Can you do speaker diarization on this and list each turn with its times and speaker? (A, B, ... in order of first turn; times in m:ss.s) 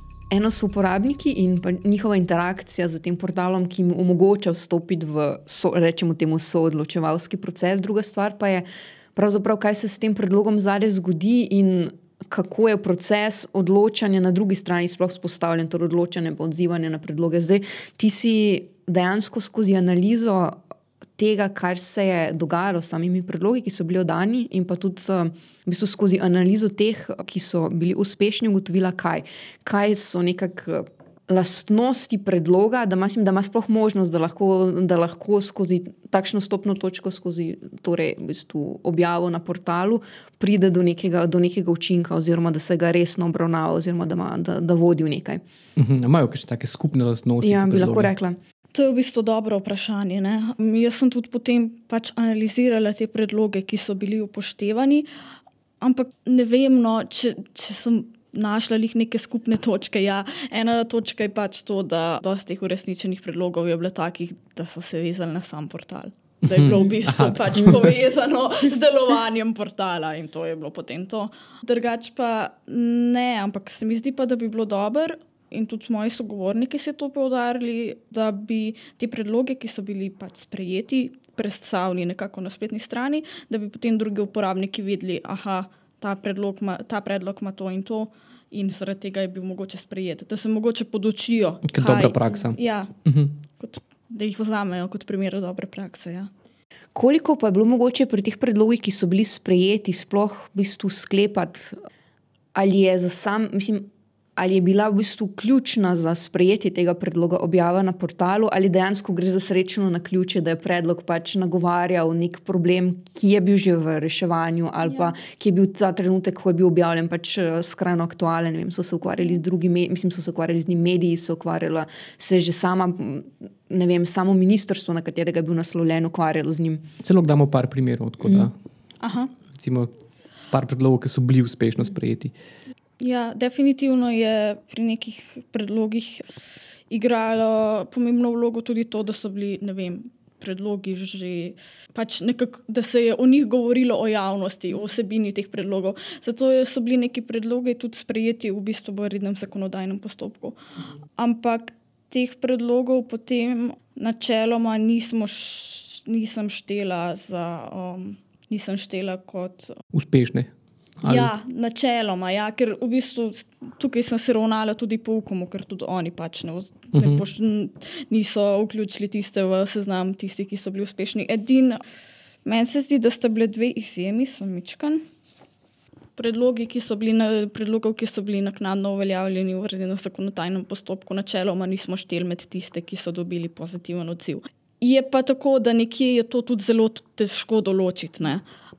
0:00.3-0:20.6 A
0:21.2-0:45.4 A
0:45.8-0:48.1 B
0:47.4-0:48.4 A
0:48.7-0:55.1 C
0:55.8-1:32.9 C
1:06.4-1:08.0 B
1:31.7-1:33.3 B
1:33.6-1:36.3 C
1:36.9-1:41.8 A
1:42.5-2:06.8 A
2:07.0-2:08.5 B
2:08.2-2:08.5 A
2:09.0-2:09.3 C
2:09.5-2:09.9 B
2:10.5-2:12.3 B
2:13.0-2:30.6 C
2:31.2-2:39.8 C
2:39.9-2:40.5 B
2:41.0-2:41.3 B
2:41.0-2:51.8 C
2:46.9-2:47.2 B
2:52.4-2:55.0 C
2:56.2-3:08.4 C